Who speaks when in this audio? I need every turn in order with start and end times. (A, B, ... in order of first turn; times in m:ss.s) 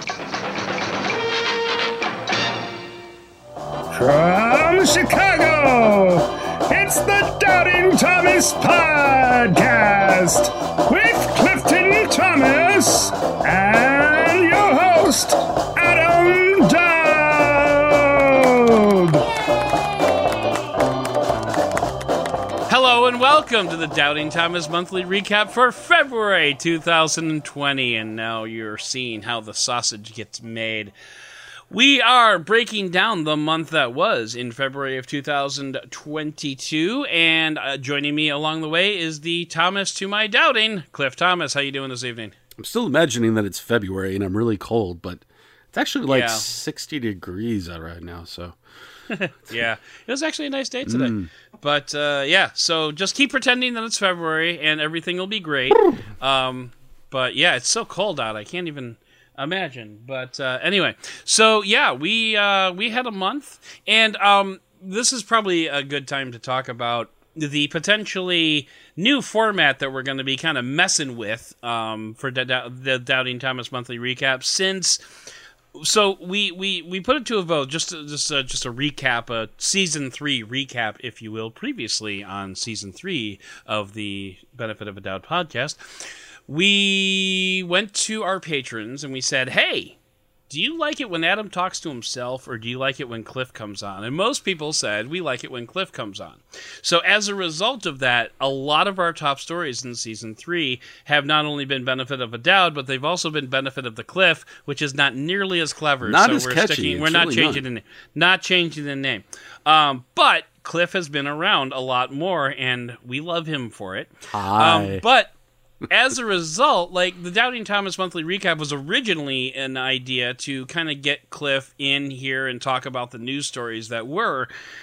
0:03.9-0:19.2 A
0:22.7-0:30.9 B
0:31.7-0:42.3 B
0:42.6-0:48.6 C
0:46.1-0:46.5 B
0:49.1-1:15.0 B
0:50.8-0:51.3 C
1:15.8-1:30.0 B
1:30.5-1:55.3 B
1:46.0-1:47.6 C
1:54.3-1:55.0 C
1:55.9-2:04.5 B